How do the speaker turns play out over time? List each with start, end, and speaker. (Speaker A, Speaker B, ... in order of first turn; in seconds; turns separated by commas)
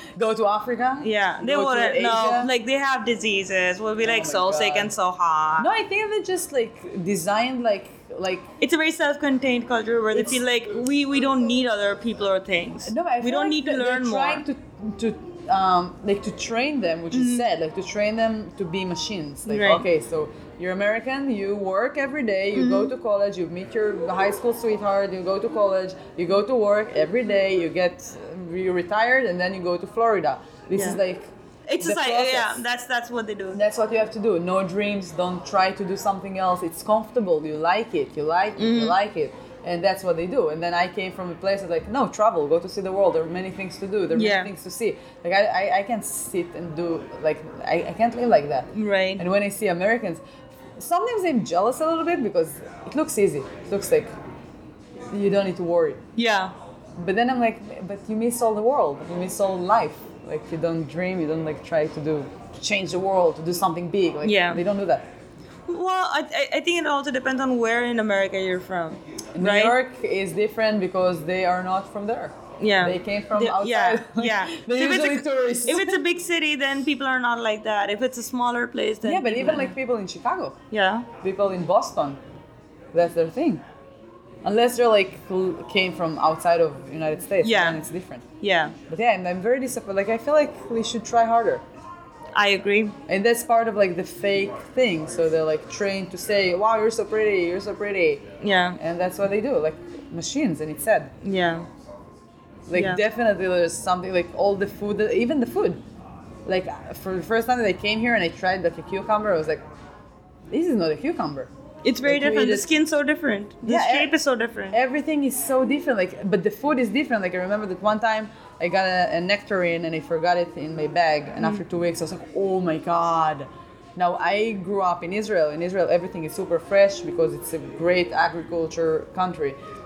Speaker A: 0.2-2.5, Speaker B: 1.0-5.7, Speaker A: 4.0-4.9, Speaker A: 5.6-8.5, Speaker B: 8.6-14.4, Speaker A: 10.1-10.4, Speaker A: 12.9-32.6, Speaker B: 17.1-17.5, Speaker B: 19.5-19.9, Speaker B: 22.6-22.9, Speaker B: 30.8-31.0, Speaker B: 31.7-33.6, Speaker A: 33.5-50.2, Speaker B: 38.6-39.0, Speaker B: 44.1-44.5, Speaker B: 48.7-49.2, Speaker A: 50.8-54.1, Speaker A: 55.1-56.0, Speaker B: 56.2-56.5, Speaker A: 57.0-65.0, Speaker B: 64.2-64.6, Speaker B: 65.7-69.8, Speaker A: 69.4-76.0, Speaker B: 72.6-79.8, Speaker A: 79.0-80.6, Speaker B: 80.7-81.1, Speaker A: 81.2-82.2, Speaker A: 82.9-83.6, Speaker A: 84.4-88.2, Speaker B: 87.4-87.8, Speaker B: 88.4-88.8, Speaker A: 88.9-91.6, Speaker B: 92.3-93.0, Speaker A: 93.1-98.3, Speaker B: 98.4-98.8, Speaker A: 98.8-101.1, Speaker B: 101.2-101.7, Speaker A: 102.7-105.8, Speaker B: 102.7-103.0, Speaker A: 106.5-109.6, Speaker A: 110.5-111.5, Speaker B: 111.8-114.8, Speaker A: 112.0-112.7, Speaker A: 113.7-114.1, Speaker A: 114.7-129.6